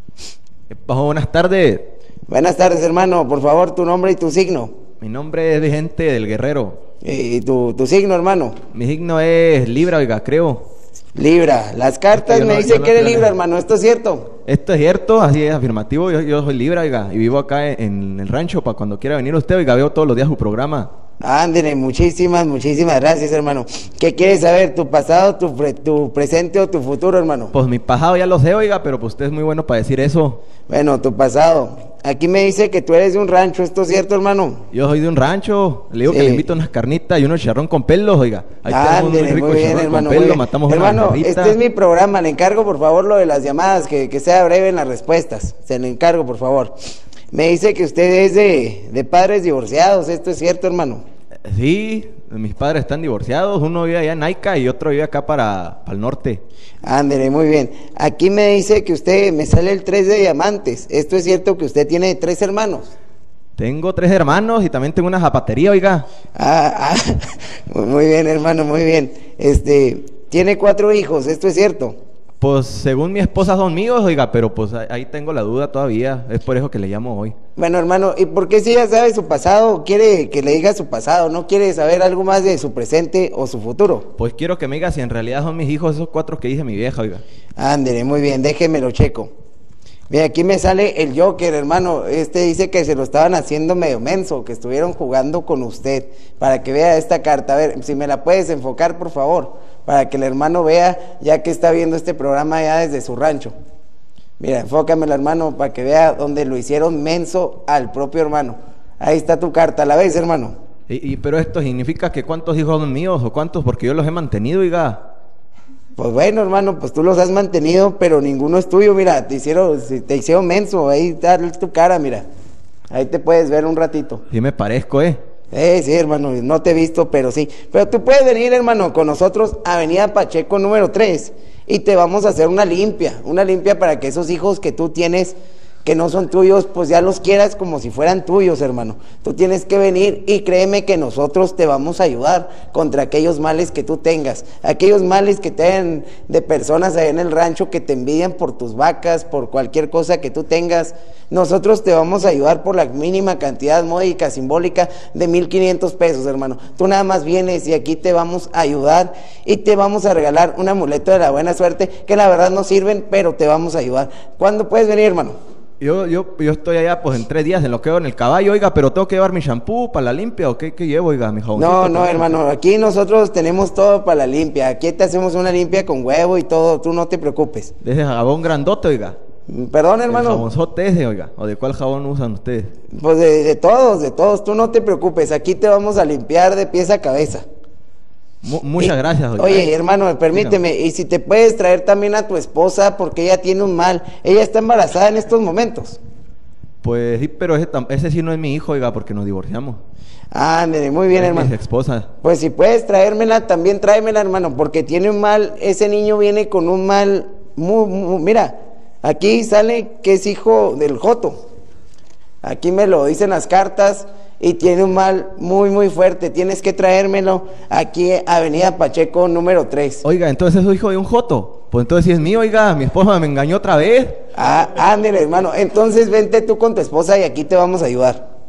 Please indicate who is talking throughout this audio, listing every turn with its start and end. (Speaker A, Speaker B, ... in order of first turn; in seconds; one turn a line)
Speaker A: 0.7-1.9
Speaker B: 2.3-4.7
Speaker A: 5.0-6.8
Speaker B: 7.0-8.6
Speaker A: 8.7-10.7
Speaker B: 11.2-14.3
Speaker A: 12.1-13.3
Speaker A: 14.5-20.9
Speaker B: 21.2-27.5
Speaker A: 27.5-30.4
Speaker B: 30.7-34.6
Speaker A: 34.7-41.6
Speaker B: 36.1-36.5
Speaker B: 38.7-46.7
Speaker B: 47.3-51.0
Speaker A: 51.5-56.4
Speaker B: 56.8-62.9
Speaker A: 63.6-66.1
Speaker B: 66.3-72.0
Speaker A: 72.4-77.3
Speaker B: 77.6-84.1
Speaker A: 84.2-87.2
Speaker B: 87.6-89.3
Speaker B: 90.1-103.5
Speaker B: 104.4-110.5
Speaker A: 110.9-115.0
Speaker B: 116.0-122.2
Speaker B: 122.9-124.2
Speaker A: 124.3-125.2
Speaker B: 125.5-165.4
Speaker A: 165.8-172.4
Speaker B: 171.6-177.7
Speaker A: 177.8-179.2
Speaker B: 179.5-180.5
Speaker A: 180.1-182.7
Speaker B: 182.9-187.4
Speaker A: 188.4-189.7
Speaker B: 188.8-196.0
Speaker A: 190.3-190.6
Speaker A: 196.8-199.8
Speaker B: 200.3-201.5
Speaker A: 201.1-202.1
Speaker B: 202.2-211.4
Speaker B: 212.4-220.0
Speaker A: 220.0-224.2
Speaker B: 224.3-228.2